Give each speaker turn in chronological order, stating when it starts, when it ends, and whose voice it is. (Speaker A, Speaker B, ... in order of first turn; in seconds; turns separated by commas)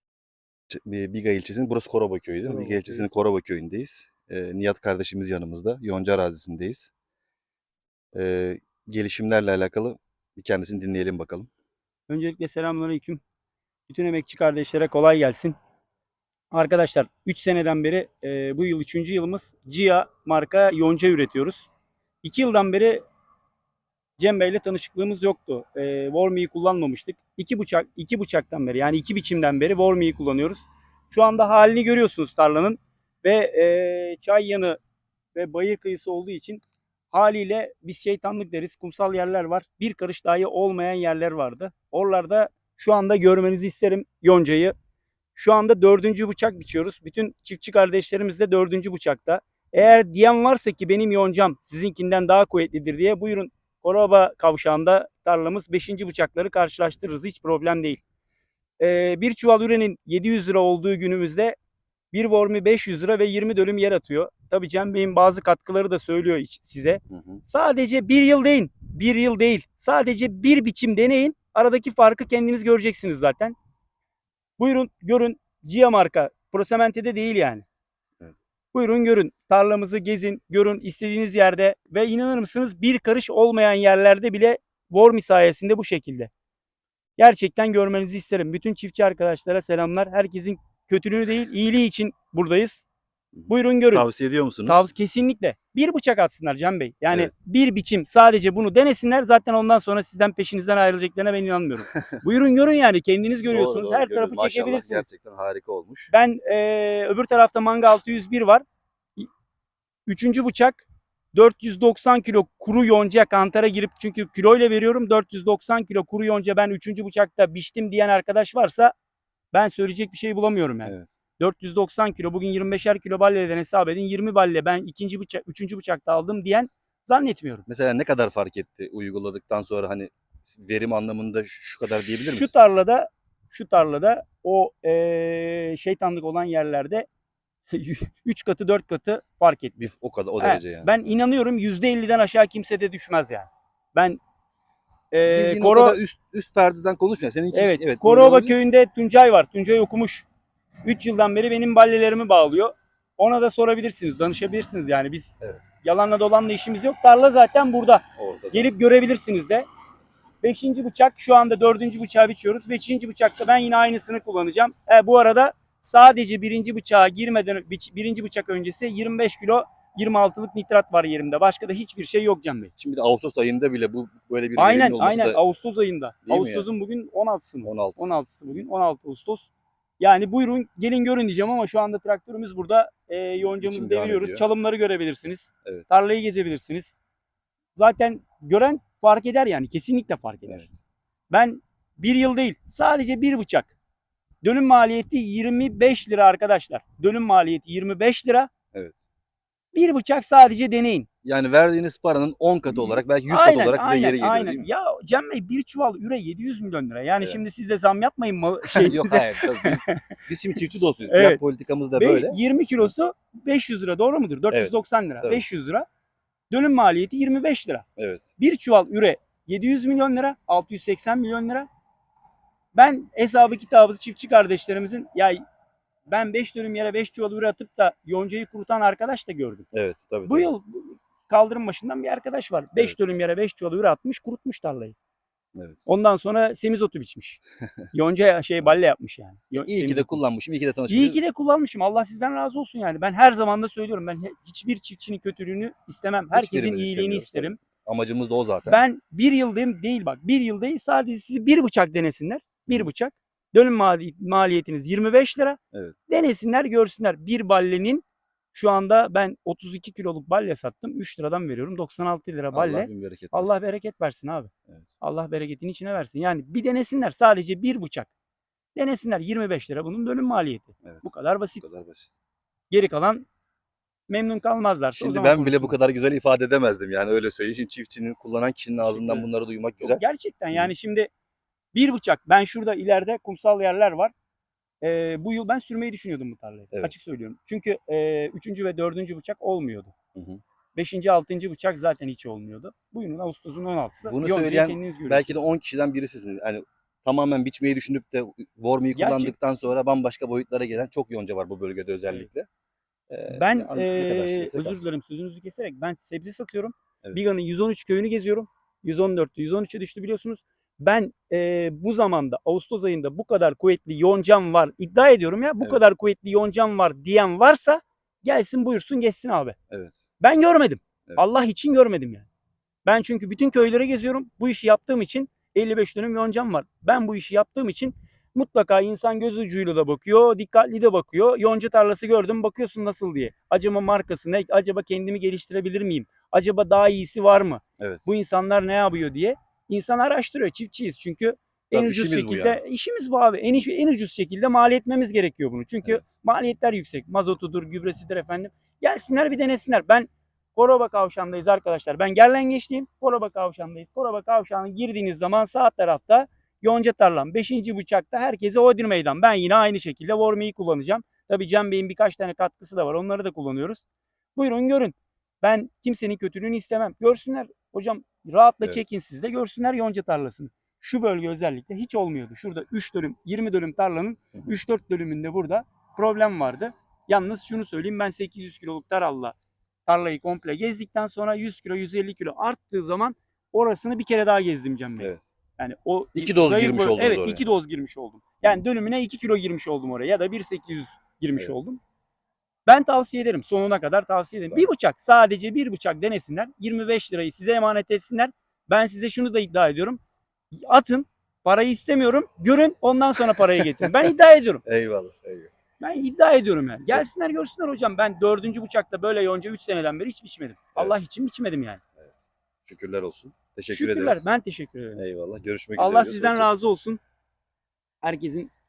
Speaker A: 0.7-6.9, Speaker B: 2.4-3.1, Speaker A: 8.1-11.5, Speaker B: 12.1-13.2, Speaker B: 13.9-15.6, Speaker B: 16.5-21.7, Speaker B: 22.2-23.0, Speaker B: 24.2-34.8, Speaker B: 35.3-44.7, Speaker B: 45.4-58.0, Speaker B: 58.8-61.5, Speaker B: 62.1-73.5, Speaker A: 67.1-67.4, Speaker B: 74.6-77.6, Speaker B: 78.7-86.3, Speaker B: 87.2-92.8, Speaker A: 93.3-94.8, Speaker B: 93.5-94.0, Speaker B: 94.7-105.1, Speaker A: 103.5-106.1, Speaker B: 106.1-108.6, Speaker B: 110.1-118.9, Speaker B: 119.5-127.7, Speaker A: 127.7-132.5, Speaker B: 131.8-137.1, Speaker B: 137.7-139.8, Speaker A: 139.8-140.9, Speaker B: 140.4-144.2, Speaker B: 145.1-146.0, Speaker A: 145.3-148.6, Speaker B: 147.5-150.3, Speaker B: 150.8-159.7, Speaker A: 158.2-158.7, Speaker B: 160.4-172.7, Speaker A: 172.8-175.4, Speaker B: 174.6-187.0, Speaker A: 176.2-176.7, Speaker A: 177.6-178.1, Speaker A: 183.4-184.4, Speaker B: 187.8-190.7, Speaker B: 191.3-193.7, Speaker B: 194.4-198.5, Speaker B: 199.7-201.1, Speaker A: 201.2-204.7, Speaker B: 202.7-210.0, Speaker A: 208.7-212.9, Speaker B: 211.1-211.4, Speaker B: 211.9-215.8, Speaker A: 214.5-215.4, Speaker B: 216.5-217.8, Speaker A: 218.0-218.2, Speaker B: 218.4-221.7, Speaker B: 222.7-225.4, Speaker B: 226.1-229.7, Speaker A: 229.7-230.5, Speaker B: 230.2-234.9, Speaker B: 235.8-237.4, Speaker B: 237.9-240.2, Speaker A: 239.6-241.2, Speaker B: 240.9-247.6, Speaker A: 246.3-248.8, Speaker B: 248.7-268.1, Speaker A: 262.5-263.5, Speaker B: 268.7-271.6, Speaker A: 271.6-272.1, Speaker B: 272.7-273.3, Speaker B: 274.1-275.8, Speaker A: 274.9-280.0, Speaker B: 278.9-279.3, Speaker B: 279.8-281.1, Speaker B: 281.7-284.1, Speaker B: 284.8-289.9, Speaker A: 290.1-290.4, Speaker B: 290.7-295.4, Speaker A: 294.0-302.5, Speaker B: 298.9-299.3, Speaker A: 303.1-304.8, Speaker B: 303.3-319.6, Speaker A: 319.7-320.0, Speaker B: 320.2-322.3, Speaker B: 322.8-363.8, Speaker A: 337.8-338.0, Speaker A: 341.7-342.6, Speaker B: 364.4-379.3, Speaker B: 379.9-391.8, Speaker A: 386.1-387.4, Speaker B: 392.6-400.0, Speaker B: 400.5-404.6, Speaker A: 404.6-405.5, Speaker B: 405.8-411.8, Speaker A: 412.6-414.2, Speaker B: 413.7-415.0, Speaker A: 414.9-416.5, Speaker B: 415.8-417.0, Speaker B: 418.0-418.5